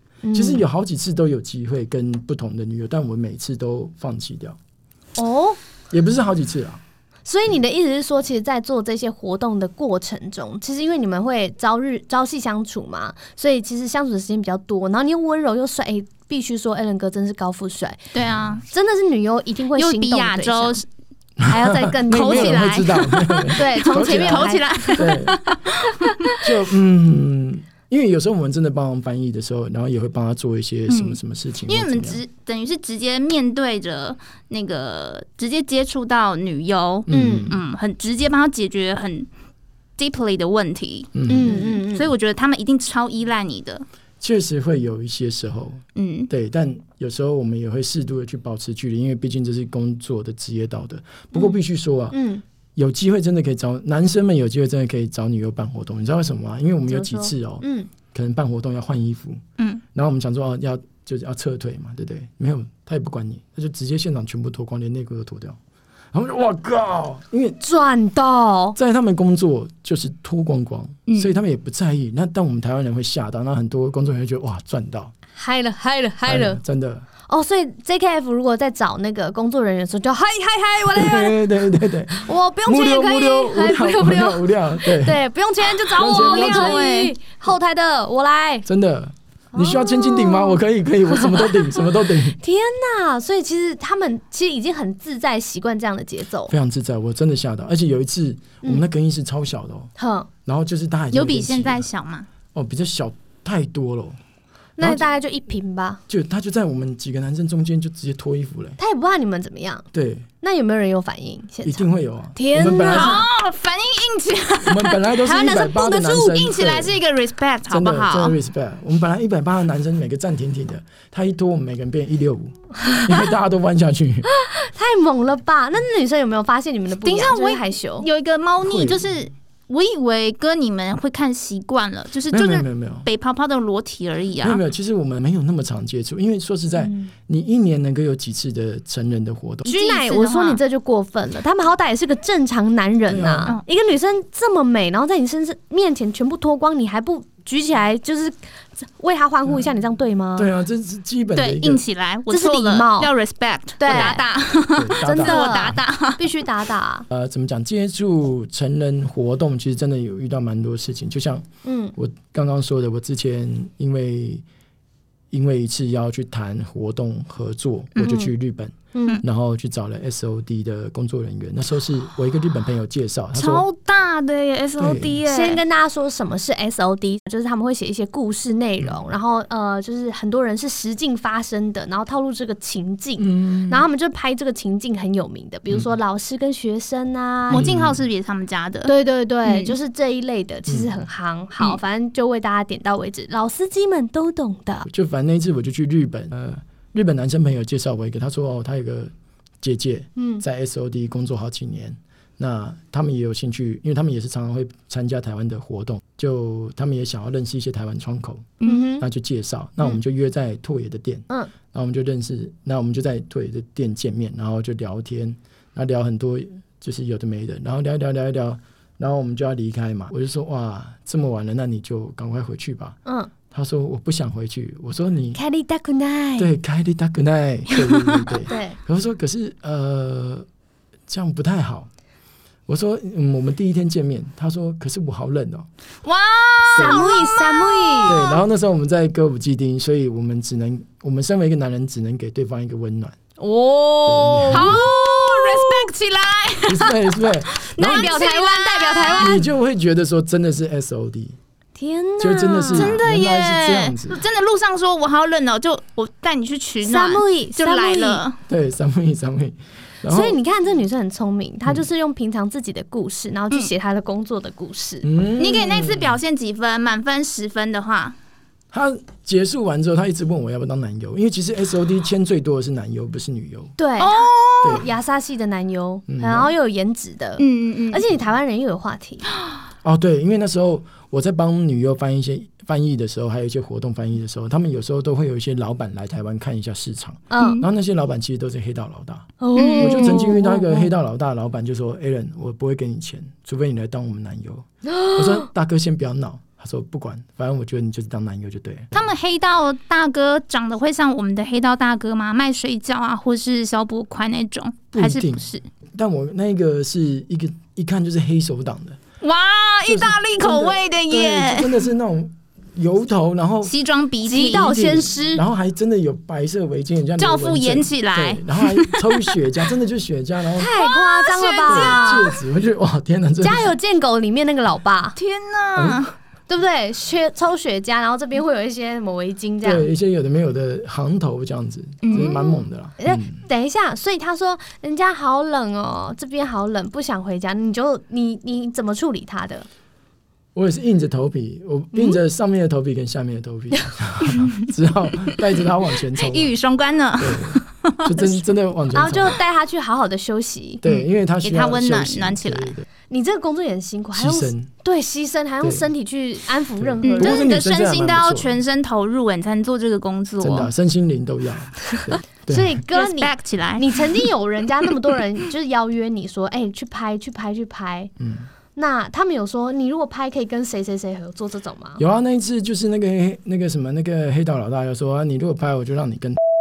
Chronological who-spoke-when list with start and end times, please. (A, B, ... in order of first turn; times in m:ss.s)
0:00.2-0:00.6 A
0:00.3-0:04.6 B
0:05.2-0:05.6 A
0:05.9-0:06.8 B
0:07.2-0:18.0 A
0:18.1-0:18.6 C
0:18.7-0:20.8 A
0:19.7-0:20.8 C
0:21.4-0:25.4 B
0:21.5-0:22.9 A
0:22.1-0:26.4 C
0:23.5-0:25.1 A
0:26.4-0:32.2 B
0:30.9-0:39.3 C
0:37.1-0:37.6 B
0:37.1-0:37.5 A
0:40.0-0:43.8 C
0:41.1-0:41.7 B
0:41.3-0:42.1 A
0:44.2-0:52.2 B
0:46.0-0:46.3 C
0:52.1-0:52.4 A
0:52.8-0:59.4 B
0:56.9-0:57.9 A
0:59.9-1:05.6 B
1:06.1-1:07.6 B
1:07.6-1:08.8 A
1:08.8-1:15.1 B
1:15.4-1:16.6 A
1:16.2-1:17.0 B
1:17.3-1:21.5 A
1:20.9-1:25.2 B
1:22.1-1:28.7 A
1:25.9-1:27.1 C
1:26.0-1:26.9 B
1:28.6-1:32.4 B
1:29.5-1:36.5 A
1:36.5-1:39.9 B
1:40.0-1:40.3 A
1:40.4-1:41.8 B
1:41.1-1:42.3 C
1:42.5-1:44.2 B
1:44.8-1:46.0 A
1:44.8-1:45.0 B
1:46.1-1:48.8 B
1:48.8-1:49.9 A
1:49.9-1:50.3 B
1:50.4-1:53.2 A
1:51.6-1:53.2 B
1:52.9-1:58.4 C
1:54.6-1:57.0 B
1:57.7-2:04.3 B
2:02.8-2:03.1 A
2:04.3-2:08.0 A
2:07.0-2:14.6 C
2:08.6-2:09.1 B
2:12.3-2:13.1 B
2:14.4-2:19.7 B
2:16.8-2:17.1 A
2:19.6-2:30.5 A
2:19.6-2:20.6 C
2:23.1-2:23.5 B
2:30.4-2:31.8 B
2:31.3-2:36.4 C
2:32.3-2:33.1 A
2:33.8-2:34.2 A
2:33.9-2:34.2 B
2:34.8-2:35.5 B
2:35.0-2:37.1 A
2:37.1-2:44.4 B
2:41.6-2:41.9 A
2:45.3-2:53.6 B
2:48.0-2:48.3 A
2:48.9-2:49.2 A
2:53.3-2:55.6 C
2:54.8-2:55.2 B
2:55.3-3:07.7 A
3:03.2-3:03.8 B
3:07.5-3:08.9 C
3:07.5-3:08.0 B
3:08.8-3:14.9 A
3:09.4-3:09.7 C
3:10.7-3:11.0 B
3:14.9-3:43.0 B
3:20.2-3:20.4 A
3:28.6-3:29.0 A
3:43.0-3:43.3 A
3:43.5-3:45.4 B
3:45.3-3:46.5 A
3:46.4-3:50.5 B
3:48.5-3:48.8 A
3:51.1-3:51.9 B
3:52.7-3:55.7 B
3:56.0-3:58.2 C
3:56.7-3:57.0 B
3:56.7-3:58.3 A
3:58.0-4:03.2 B
4:03.4-4:05.9 A
4:04.0-4:04.8 B
4:04.5-4:09.4 C
4:06.7-4:08.2 B
4:07.8-4:09.4 A
4:09.2-4:11.4 B
4:11.8-4:12.9 A
4:12.2-4:14.2 B
4:12.7-4:18.4 C
4:16.8-4:18.2 A
4:18.5-4:20.4 B
4:20.1-4:25.1 A
4:25.0-4:26.2 B
4:25.4-4:28.2 C
4:28.7-4:33.7 B
4:33.8-4:39.2 A
4:34.0-4:34.8 C
4:36.1-4:36.5 B
4:37.4-4:38.0 C
4:39.8-4:58.9 B
4:47.3-4:47.6 A
4:47.4-4:47.6 C
4:49.4-4:50.9 A
4:49.5-4:50.3 C
4:54.9-4:55.4 A
4:58.9-5:05.6 C
5:04.9-5:09.0 B
5:09.2-5:11.7 C
5:09.8-5:13.7 B
5:13.6-5:14.7 C
5:14.2-5:15.4 A
5:14.5-5:20.7 B
5:17.2-5:19.3 C
5:20.5-5:22.3 A
5:20.7-5:22.0 C
5:21.6-5:23.8 B
5:23.4-5:25.2 A
5:25.2-5:26.1 C
5:25.8-5:26.1 B
5:26.5-5:29.9 A
5:29.6-5:33.4 B
5:32.0-5:32.4 C
5:32.1-5:39.7 A
5:40.5-5:46.5 B
5:46.1-5:48.0 C
5:47.2-5:49.4 B
5:48.9-5:50.8 A
5:50.8-5:52.8 B
5:50.8-5:52.7 C
5:53.1-5:57.5 A
5:54.1-5:54.7 B
5:56.8-5:58.6 B
5:57.0-6:00.7 C
6:00.4-6:02.8 B
6:02.4-6:08.1 A
6:02.9-6:04.0 C
6:08.2-6:08.5 B
6:08.8-6:12.0 A
6:12.0-6:16.4 B